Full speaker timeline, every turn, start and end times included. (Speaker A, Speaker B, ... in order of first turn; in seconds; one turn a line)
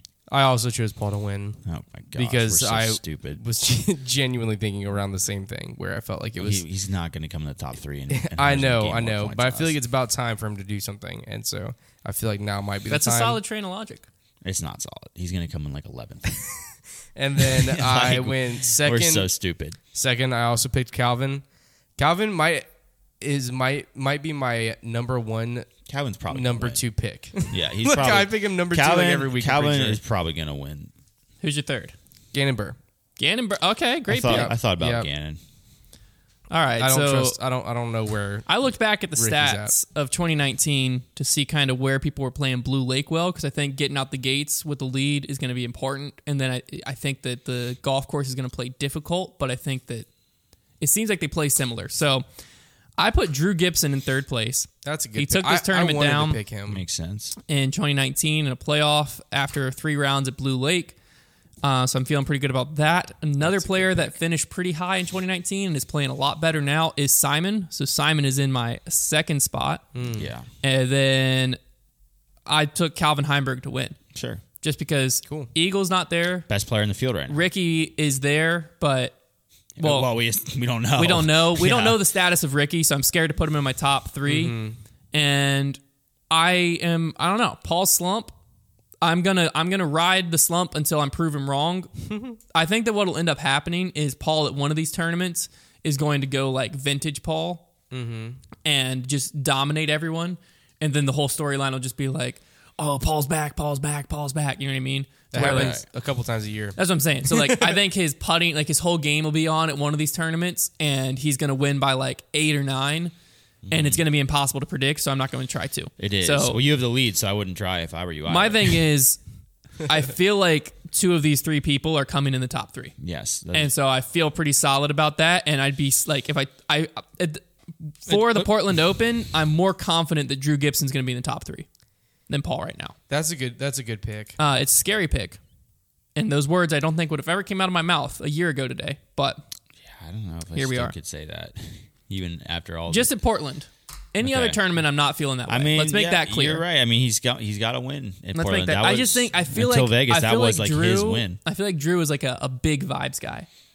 Speaker A: 0.3-1.6
Speaker B: 1.6-3.4
Speaker A: 2.1-6.6
Speaker B: 6.4-9.7
Speaker A: 8.1-13.4
Speaker C: 12.9-14.0
Speaker B: 14.4-16.4
Speaker A: 17.1-19.3
Speaker B: 17.4-19.8
Speaker A: 19.9-21.4
Speaker A: 22.0-22.7
Speaker A: 23.2-25.7
Speaker B: 25.9-26.8
Speaker A: 26.3-30.0
Speaker B: 27.5-30.9
Speaker C: 31.4-31.9
Speaker A: 32.3-32.8
Speaker C: 33.2-34.5
Speaker B: 34.1-35.4
Speaker A: 34.1-35.1
Speaker C: 36.5-37.4
Speaker A: 36.8-39.7
Speaker C: 38.5-50.1
Speaker C: 50.8-52.2
Speaker C: 53.0-56.4
Speaker A: 54.8-56.8
Speaker B: 56.7-57.4
Speaker C: 57.5-61.0
Speaker C: 61.6-69.8
Speaker A: 69.9-70.3
Speaker B: 70.2-70.5
Speaker C: 70.6-71.6
Speaker C: 72.5-74.0
Speaker B: 74.1-74.4
Speaker C: 74.6-76.5
Speaker B: 76.5-77.4
Speaker C: 77.3-79.1
Speaker B: 79.8-82.0
Speaker C: 79.8-80.1
Speaker C: 81.0-84.6
Speaker A: 84.3-84.8
Speaker C: 85.1-88.3
Speaker C: 89.0-91.9
Speaker C: 92.5-97.7
Speaker A: 97.9-98.4
Speaker C: 98.6-105.8
Speaker A: 105.3-107.8
Speaker B: 105.3-105.8
Speaker C: 106.8-113.1
Speaker B: 113.6-114.0
Speaker C: 113.7-116.6
Speaker B: 116.0-118.8
Speaker C: 118.3-119.2
Speaker C: 119.8-122.9
Speaker B: 123.0-123.7
Speaker C: 123.5-131.7
Speaker C: 132.3-132.9
Speaker A: 133.1-134.4
Speaker C: 134.4-135.4
Speaker C: 136.1-139.4
Speaker B: 139.8-143.2
Speaker C: 140.5-140.9
Speaker C: 142.9-146.6
Speaker B: 144.2-144.6
Speaker B: 145.5-151.4
Speaker C: 148.3-153.5